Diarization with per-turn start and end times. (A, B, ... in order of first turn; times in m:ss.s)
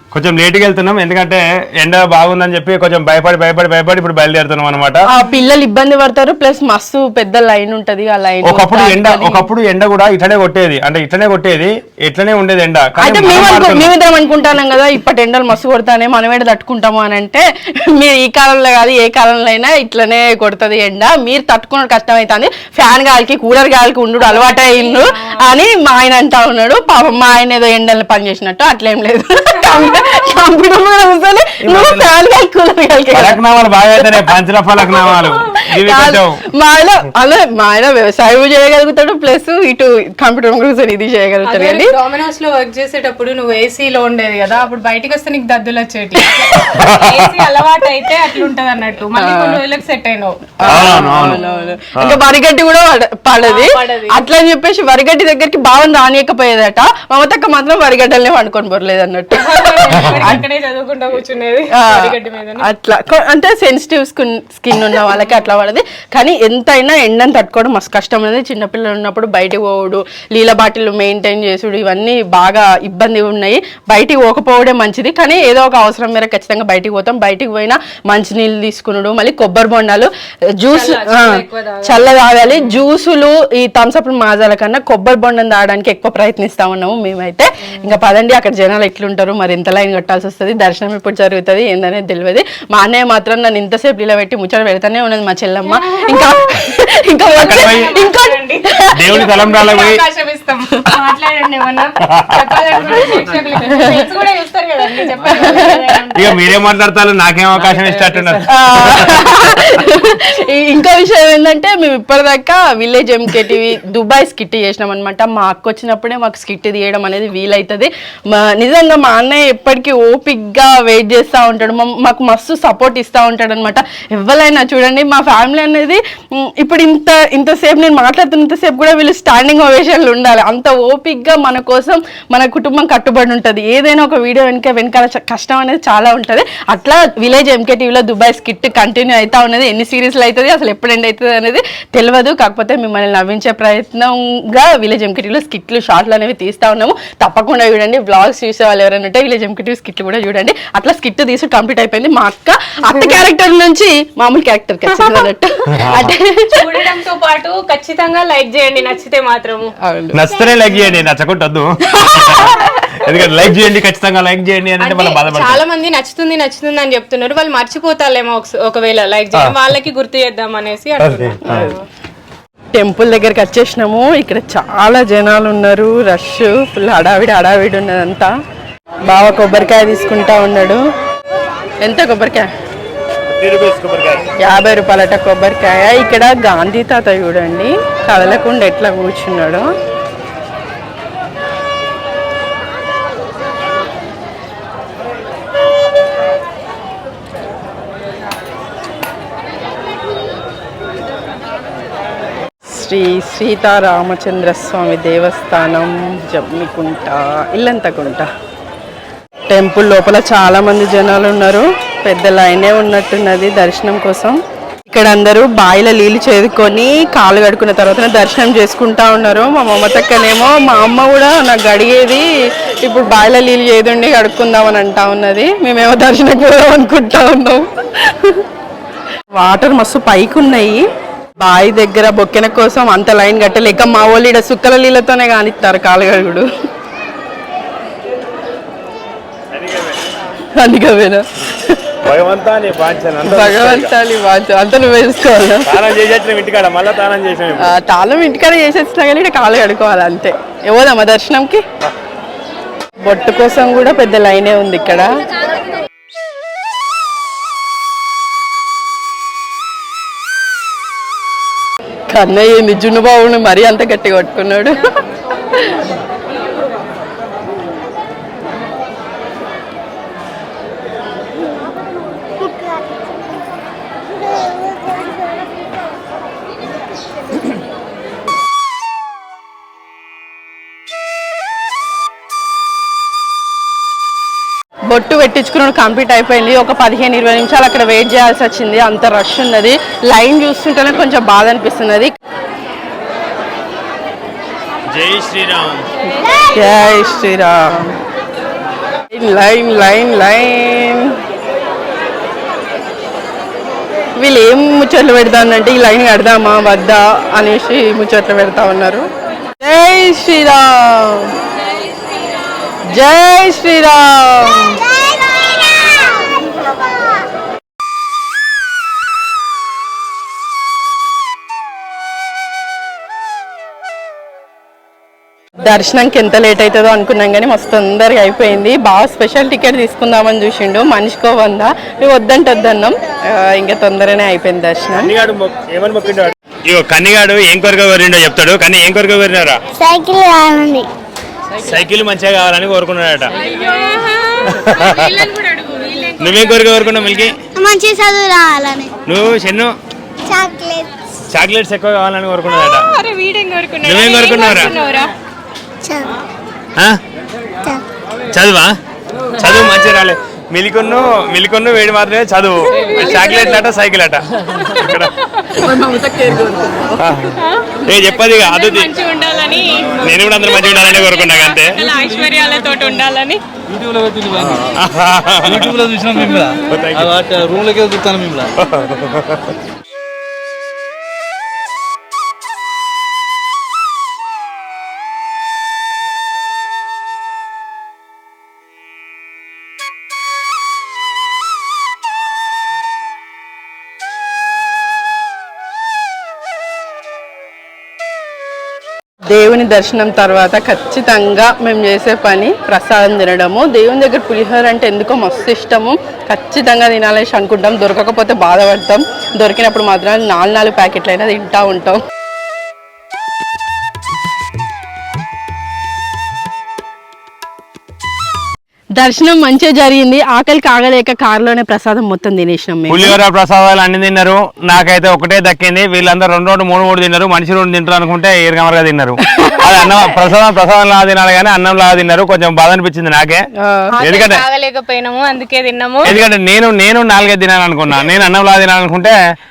0:00.1-0:05.0 A
0:05.1-0:09.5 B
0:08.4-0:13.9 A
0:13.0-0:34.3 B
0:24.3-0:25.5 C
0:31.6-0:32.1 A
0:33.1-0:36.4 A
0:34.9-0:41.9 B
0:41.4-0:51.7 C
0:46.8-0:47.4 A
0:49.2-0:49.6 B
0:50.6-1:00.4 B
0:50.7-0:51.4 A
0:53.4-0:54.2 C
0:59.3-1:02.7 C
1:01.7-1:39.4 B
1:20.7-1:22.8 C
1:37.4-1:37.9 A
1:37.4-1:38.7 C
1:38.9-1:40.0 A
1:39.2-1:46.4 C
1:42.1-1:42.4 A
1:43.7-1:44.0 B
1:45.2-1:45.8 B
1:46.1-1:49.6 A
1:47.7-1:48.4 C
1:48.4-2:36.8 B
2:35.7-2:36.1 A
2:36.5-2:39.7 C
2:39.8-2:40.2 B
2:40.1-2:45.6 A
2:41.9-2:42.7 B
2:44.8-2:51.4 C
2:51.0-2:51.7 A
2:51.4-2:51.8 B
2:52.7-2:58.3 B
2:59.1-3:00.8 B
3:01.8-3:02.5 B
3:03.3-3:04.3 A
3:04.4-3:09.7 B
3:22.7-3:28.3 B
3:29.5-3:34.4 B
3:34.9-3:42.3 B
3:42.8-3:48.4 B
3:49.4-3:50.8 B
3:51.4-3:56.5 B
3:59.5-4:00.0 A
4:00.6-4:01.8 B
4:02.0-4:03.9 A
4:03.2-4:05.7 B
4:05.6-4:07.7 A
4:07.6-4:11.6 B
4:13.0-4:15.2 B
4:22.1-4:24.9 B
4:44.9-4:52.1 B
4:54.9-4:55.9 A
4:56.5-4:58.0 B
4:59.1-5:01.2 B
5:04.2-5:09.1 B
5:09.6-5:11.3 B
5:12.9-5:14.9 B
5:25.6-5:35.1 B
5:35.0-5:39.6 A
5:39.8-5:40.9 D
5:41.6-5:43.3 A
5:43.4-5:47.1 C
5:44.5-5:45.2 A
5:46.2-5:47.4 A
5:47.5-5:48.9 D
5:49.1-5:49.8 A
5:50.3-5:50.9 D
5:51.3-5:52.9 A
5:52.6-5:55.1 C
5:53.8-5:54.7 A
5:55.8-5:56.1 D
5:58.3-5:58.7 A
5:59.4-6:05.1 A
6:02.8-6:03.6 C
6:03.0-6:03.6 B
6:05.6-6:07.0 B
6:07.0-6:08.9 A
6:07.4-6:13.4 C
6:10.0-6:11.8 A
6:13.7-6:14.6 E
6:14.5-6:15.8 A
6:15.5-6:18.5 E
6:16.7-6:17.2 A
6:18.6-6:19.5 A
6:39.3-6:52.0 B
6:59.0-7:03.2 B
7:02.9-7:13.4 A
7:09.4-7:10.0 B
7:13.6-7:14.0 B
7:13.9-7:16.2 C
7:14.0-7:14.4 A
7:16.0-7:19.2 A